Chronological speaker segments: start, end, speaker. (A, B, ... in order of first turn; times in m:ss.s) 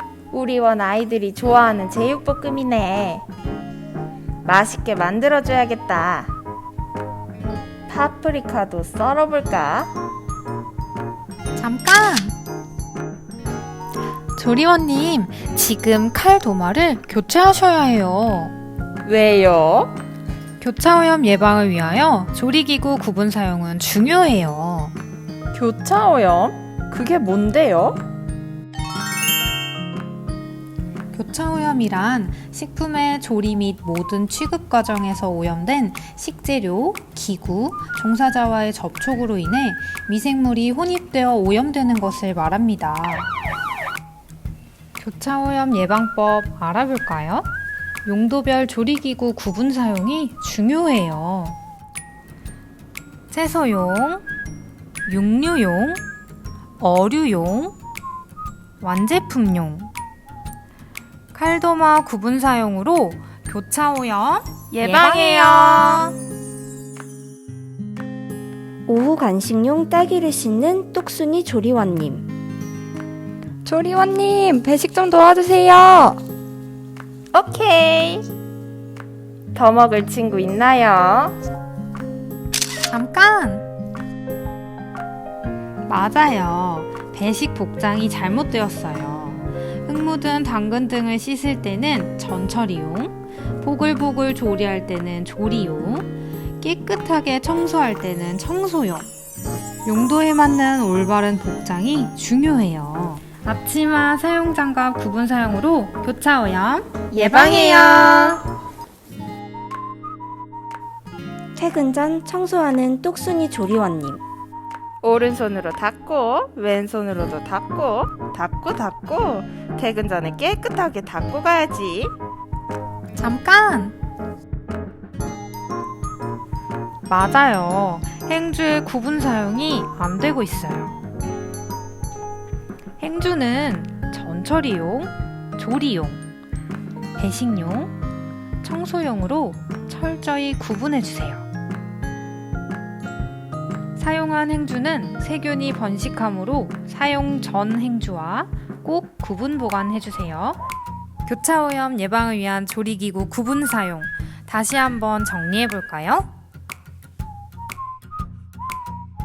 0:00.3-0:03.2 A
0:04.4-0:06.3 A
0:07.9-0:09.9 A
0:11.6-0:12.4 B
0:14.4-0:18.6 B
0:19.0-0:19.9 A
0:20.6-0:25.0 B
0:25.5-0:28.0 A
0:31.1-0:43.3 B
0:45.0-0:47.5 B
0:48.0-0:51.6 B
0:53.3-0:54.2 B
0:55.0-0:56.0 B
0:56.8-0:57.8 B
0:58.8-0:59.9 B
1:01.3-1:06.2 B
1:08.9-1:12.3 C
1:13.7-1:16.2 D
1:17.3-1:18.3 A
1:19.6-1:21.4 A
1:22.9-1:23.7 B
1:25.9-1:39.1 B
1:39.8-1:48.4 B
1:47.1-1:48.2 A
1:51.6-1:54.2 C
1:55.0-2:02.1 A
2:03.2-2:04.0 B
2:07.1-2:11.0 B
2:13.0-2:16.2 B
2:17.2-2:17.9 B
2:18.6-2:21.5 B
2:24.0-2:30.6 B
2:31.3-2:36.3 B